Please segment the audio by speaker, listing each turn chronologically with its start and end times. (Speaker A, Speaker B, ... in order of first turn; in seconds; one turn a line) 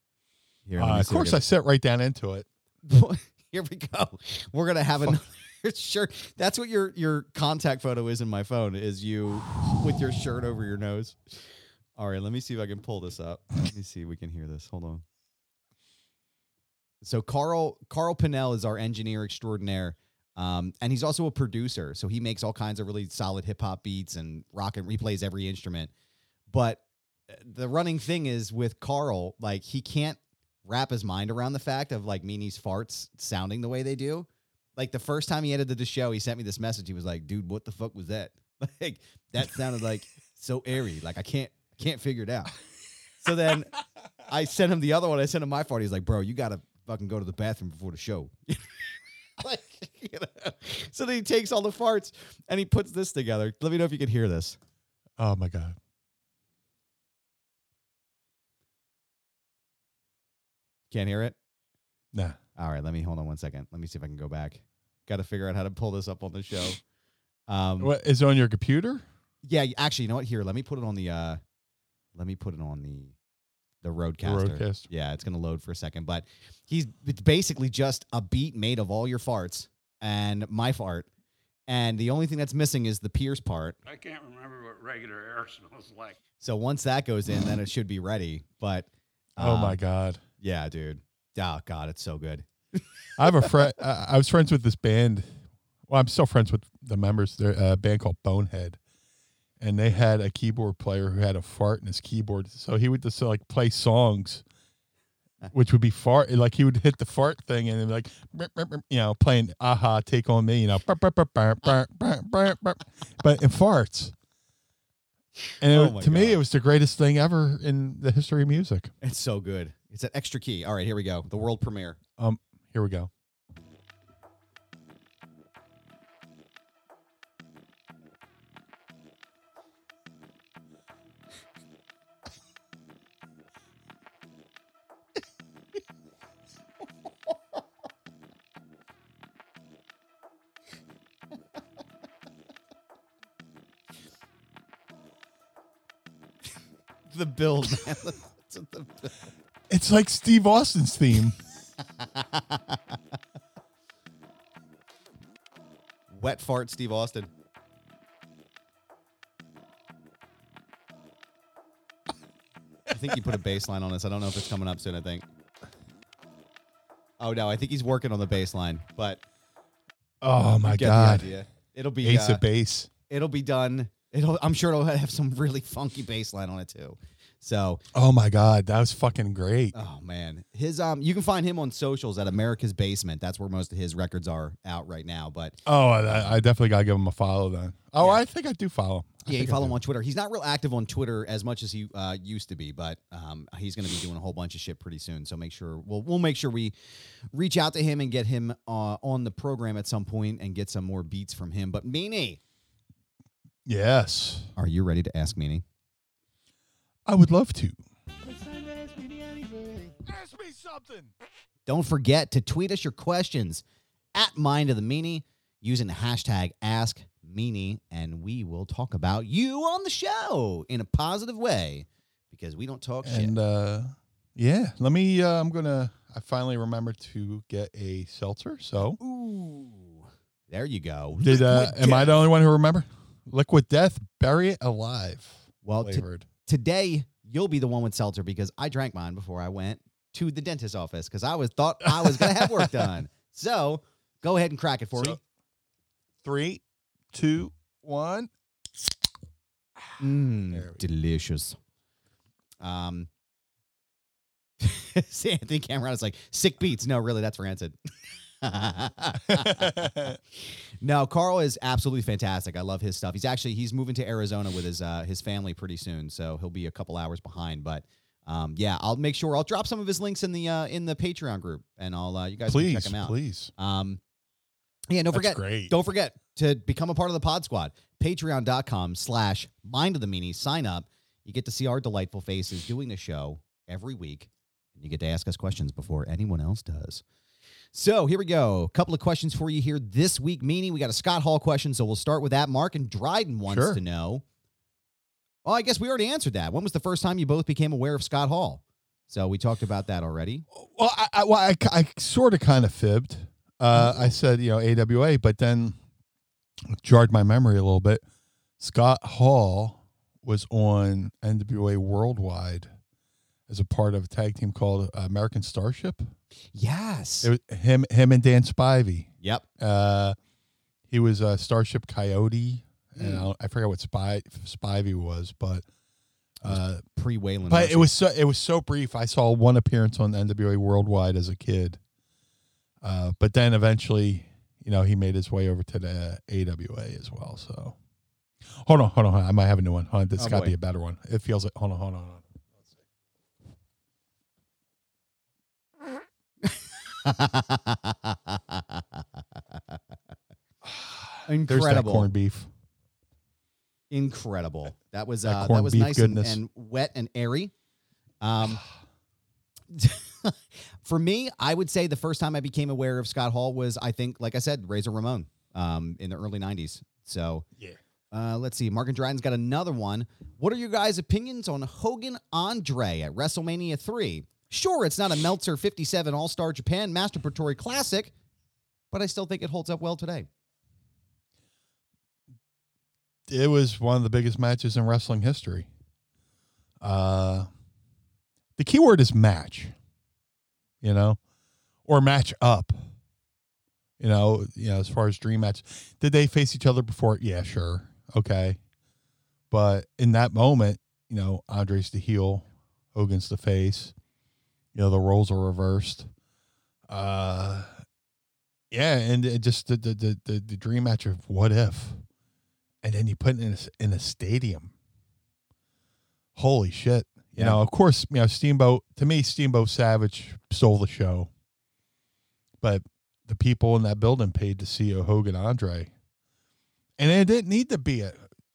Speaker A: 0.7-1.4
Speaker B: 0.8-2.5
Speaker A: 2.9-11.4
Speaker A: 11.9-15.0
Speaker A: 17.0-25.9
Speaker A: 26.5-42.5
Speaker A: 43.2-43.8
Speaker A: 44.3-48.7
Speaker A: 49.4-54.6
Speaker B: 55.2-55.8
Speaker A: 60.9-61.4
Speaker B: 62.1-62.4
Speaker A: 62.5-66.8
Speaker A: 67.5-67.9
Speaker B: 67.8-69.0
Speaker A: 69.4-71.4
Speaker A: 72.2-73.1
Speaker A: 73.8-81.1
Speaker B: 74.2-74.9
Speaker A: 81.7-83.8
Speaker C: 83.8-86.2
Speaker A: 86.4-89.8
Speaker B: 89.4-90.2
Speaker A: 90.4-93.5
Speaker B: 93.2-98.8
Speaker B: 99.6-104.4
Speaker B: 105.5-114.1
Speaker B: 115.6-118.9
Speaker A: 115.6-116.4
Speaker A: 119.0-122.0
Speaker B: 122.2-123.1
Speaker A: 147.1-149.1
Speaker B: 149.7-151.4
Speaker A: 152.0-153.0
Speaker A: 156.1-157.3
Speaker A: 162.9-165.2
Speaker A: 167.2-169.2
Speaker B: 170.2-171.3
Speaker A: 170.6-172.4
Speaker B: 172.0-172.9
Speaker A: 173.1-177.8
Speaker B: 177.9-179.7
Speaker A: 179.7-186.4
Speaker B: 185.6-189.8
Speaker A: 189.2-196.7
Speaker A: 197.3-202.4
Speaker B: 203.7-204.5
Speaker A: 204.6-205.6
Speaker B: 207.1-211.1
Speaker A: 211.7-213.6
Speaker A: 214.1-223.3
Speaker B: 223.0-229.0
Speaker A: 228.8-232.2
Speaker B: 231.2-236.3
Speaker A: 235.6-245.2
Speaker B: 241.8-242.9
Speaker B: 246.2-248.3
Speaker A: 250.0-251.6
Speaker B: 250.5-250.8
Speaker A: 252.6-253.1
Speaker A: 254.6-257.8
Speaker A: 258.4-274.0
Speaker B: 259.3-260.2
Speaker B: 272.5-273.5
Speaker A: 274.9-287.0
Speaker B: 275.1-275.8
Speaker A: 287.7-294.2
Speaker B: 293.5-293.8
Speaker A: 295.4-300.4
Speaker B: 300.5-305.8
Speaker A: 303.7-304.1
Speaker B: 306.7-308.0
Speaker B: 308.6-312.7
Speaker B: 313.5-316.1
Speaker A: 316.5-317.3
Speaker B: 317.2-320.1
Speaker A: 319.2-319.4
Speaker B: 320.9-325.6
Speaker A: 322.9-323.3
Speaker B: 326.4-326.8
Speaker A: 326.4-327.9
Speaker B: 327.5-331.8
Speaker B: 332.8-337.8
Speaker B: 338.5-342.2
Speaker A: 340.2-340.5
Speaker A: 346.4-349.0
Speaker B: 350.6-352.5
Speaker A: 351.2-352.1
Speaker A: 353.9-357.5
Speaker B: 355.2-356.4
Speaker A: 358.2-358.6
Speaker A: 359.7-367.4
Speaker A: 368.1-378.1
Speaker A: 378.9-380.3
Speaker B: 383.3-385.7
Speaker B: 386.8-387.5
Speaker B: 388.6-389.7
Speaker B: 390.8-391.2
Speaker B: 391.8-392.9
Speaker B: 394.0-398.6
Speaker B: 399.5-403.9
Speaker B: 404.7-406.1
Speaker B: 406.9-407.8
Speaker B: 408.7-412.0
Speaker B: 412.8-414.7
Speaker B: 416.3-421.3
Speaker B: 422.6-425.9
Speaker B: 427.0-428.2